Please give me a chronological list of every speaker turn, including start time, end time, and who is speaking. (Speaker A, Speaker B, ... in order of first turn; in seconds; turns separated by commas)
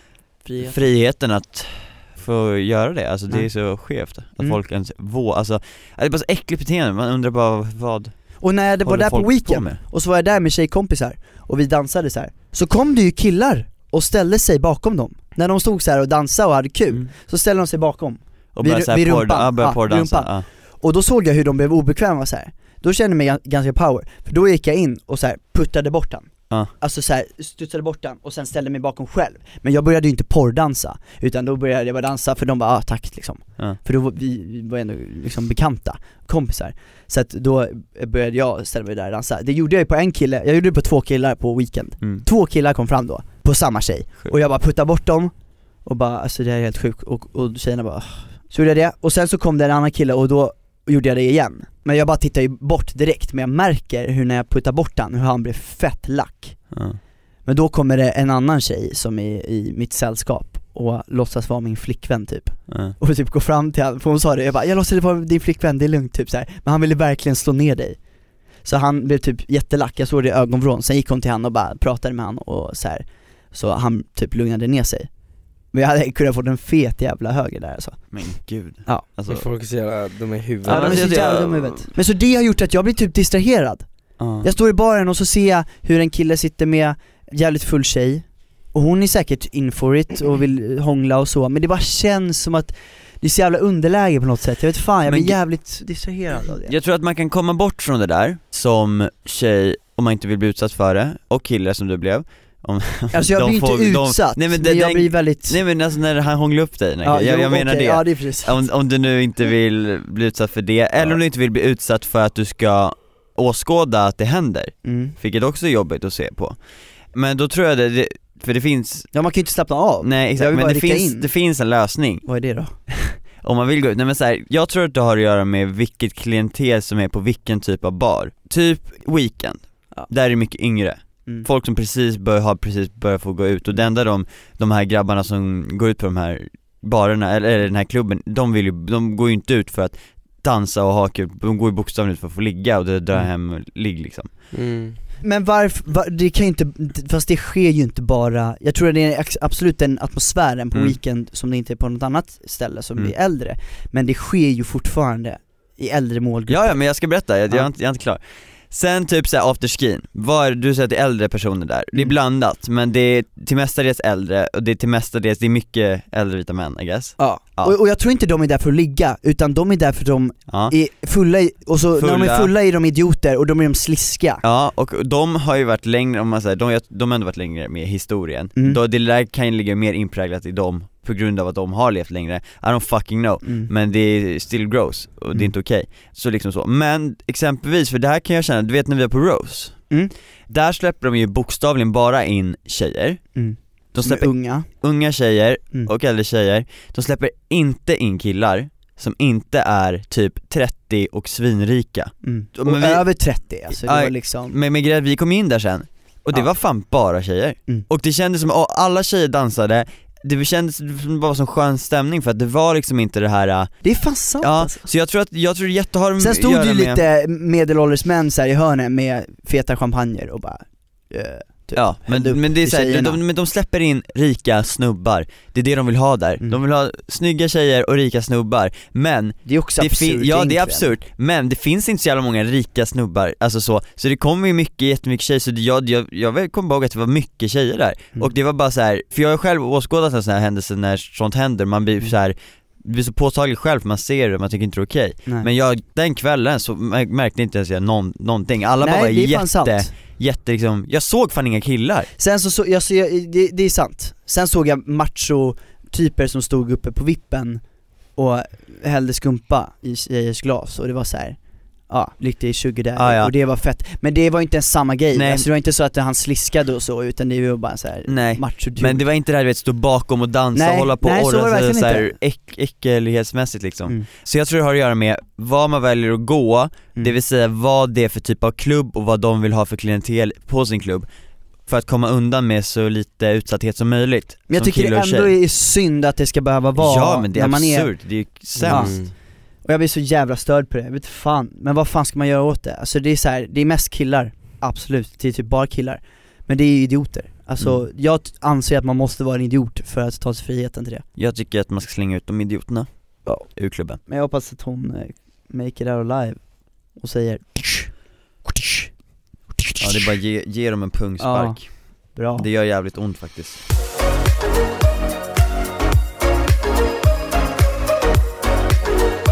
Speaker A: 0.4-0.8, Speaker B: 0.6-9.8, Speaker A: 8.4-45.3, Speaker B: 18.5-20.4, Speaker A: 45.8-56.6, Speaker B: 56.7-57.0, Speaker A: 57.5-68.0, Speaker B: 62.7-63.0, Speaker A: 68.6-75.1, Speaker A: 75.7-78.1, Speaker B: 78.1-79.5, Speaker C: 79.3-81.3, Speaker B: 80.6-81.9, Speaker A: 80.6-83.8, Speaker B: 84.2-84.5, Speaker A: 84.4-96.7, Speaker B: 95.0-95.3, Speaker B: 96.7-116.5, Speaker A: 103.1-105.6, Speaker A: 107.0-108.6, Speaker A: 114.8-115.1, Speaker B: 117.1-119.1, Speaker A: 119.1-121.3, Speaker B: 120.0-122.2, Speaker A: 122.2-123.1, Speaker B: 123.4-144.3, Speaker C: 144.5-145.0, Speaker A: 145.2-156.8, Speaker B: 156.5-158.2, Speaker B: 158.7-167.8, Speaker A: 167.2-174.4, Speaker B: 170.5-170.7, Speaker B: 172.0-172.5, Speaker B: 174.4-189.9, Speaker A: 183.4-183.7, Speaker B: 190.5-193.3, Speaker A: 193.3-194.7, Speaker B: 193.9-213.8, Speaker A: 202.2-204.6, Speaker A: 213.8-214.9, Speaker B: 214.4-217.0, Speaker A: 216.2-223.2, Speaker B: 221.7-252.1, Speaker A: 229.4-230.9, Speaker A: 248.8-249.9, Speaker A: 252.2-257.6, Speaker A: 258.1-269.0, Speaker B: 262.9-263.3, Speaker B: 265.1-265.4, Speaker B: 268.1-281.1, Speaker A: 270.5-272.1, Speaker B: 281.7-285.3, Speaker A: 284.5-287.9, Speaker B: 286.8-289.0, Speaker C: 288.6-289.1, Speaker A: 288.6-289.0, Speaker A: 289.6-301.0, Speaker B: 301.1-304.0, Speaker A: 304.1-308.9, Speaker A: 309.6-310.1, Speaker B: 309.8-313.6, Speaker A: 311.2-312.5